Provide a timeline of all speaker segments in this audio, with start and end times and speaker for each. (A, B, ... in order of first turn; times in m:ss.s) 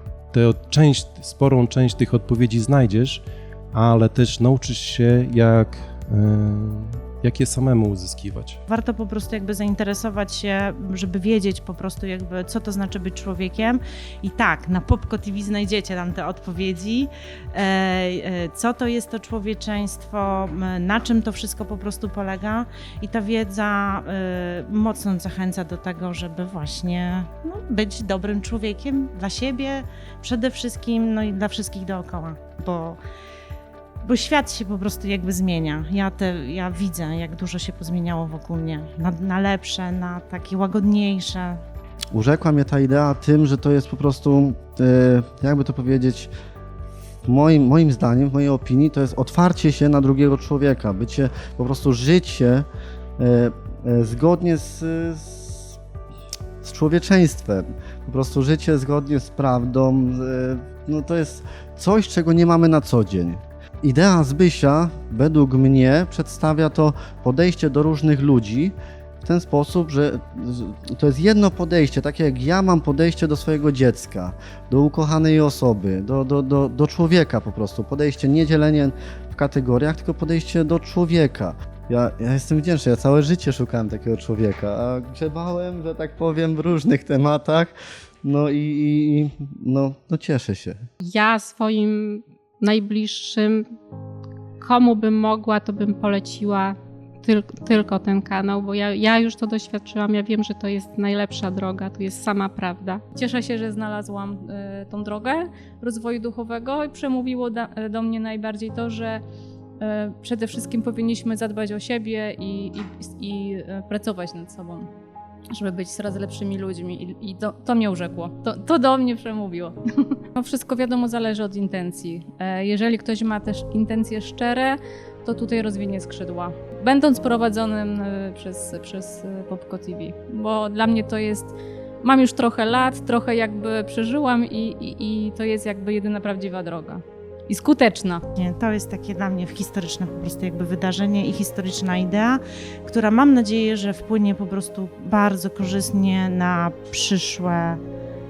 0:00.3-0:08.6 A
0:08.7-0:33.0 B
0:34.0-0:41.6 B
0:42.1-0:46.3 C
0:47.3-0:52.7 C
0:53.2-0:55.8 C
0:56.6-1:30.8 C
1:31.0-1:33.6 D
1:34.6-1:43.0 D
1:43.1-1:49.2 E
1:49.8-1:54.9 E
1:55.5-2:18.2 E
2:18.4-2:27.8 B